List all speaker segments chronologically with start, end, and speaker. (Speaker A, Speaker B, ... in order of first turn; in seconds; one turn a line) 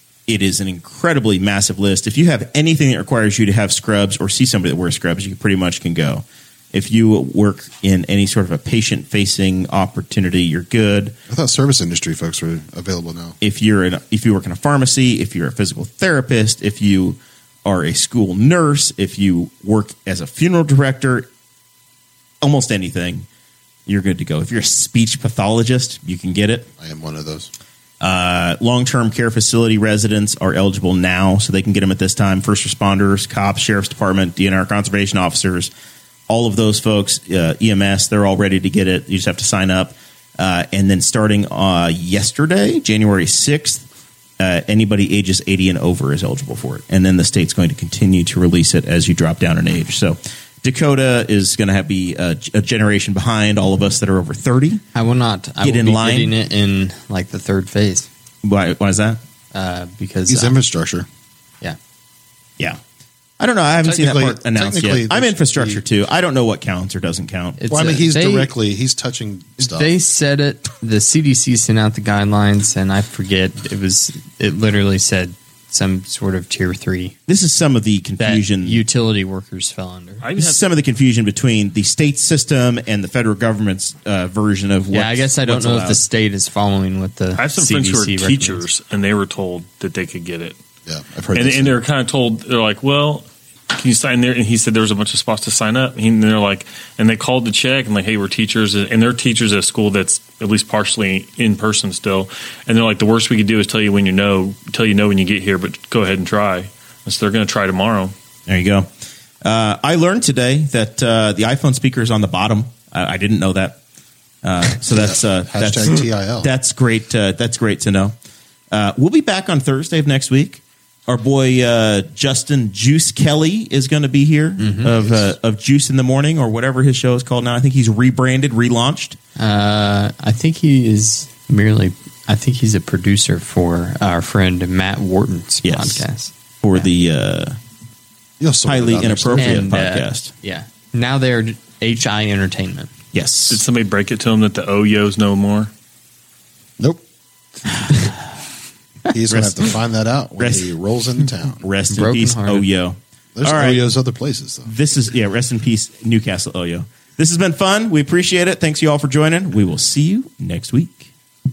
Speaker A: 0.3-11.1
Speaker B: 11.3-13.4
Speaker A: 13.4-21.3
Speaker A: 22.4-23.2
Speaker A: 23.9-26.7
Speaker B: 26.8-27.5
Speaker A: 28.0-35.7
Speaker A: 36.3-43.8
Speaker A: 44.4-54.8
Speaker C: 54.9-58.1
Speaker A: 55.6-56.3
Speaker A: 58.4-59.2
Speaker C: 59.5-60.6
Speaker B: 60.3-61.1
Speaker A: 63.4-67.6
Speaker B: 63.8-65.8
Speaker C: 67.6-68.5
Speaker B: 67.7-69.9
Speaker C: 69.6-77.2
Speaker A: 77.3-78.8
Speaker C: 78.2-80.2
Speaker D: 80.2-80.7
Speaker A: 80.4-86.0
Speaker C: 84.9-88.6
Speaker D: 87.4-90.6
Speaker B: 90.8-91.8
Speaker D: 91.3-108.1
Speaker A: 108.5-108.9
Speaker A: 109.4-113.8
Speaker A: 114.4-118.2
Speaker B: 114.9-116.5
Speaker A: 118.7-129.2
Speaker C: 124.6-124.9
Speaker B: 124.9-125.3
Speaker C: 129.4-136.9
Speaker A: 135.6-136.0
Speaker A: 136.6-137.6
Speaker B: 138.4-139.7
Speaker A: 138.7-140.3
Speaker C: 139.3-142.9
Speaker A: 143.1-143.6
Speaker D: 143.5-145.7
Speaker B: 149.1-151.6
Speaker A: 149.3-149.7
Speaker A: 150.4-150.7
Speaker A: 151.6-153.8
Speaker C: 151.9-152.7
Speaker B: 153.3-154.7
Speaker A: 154.7-161.1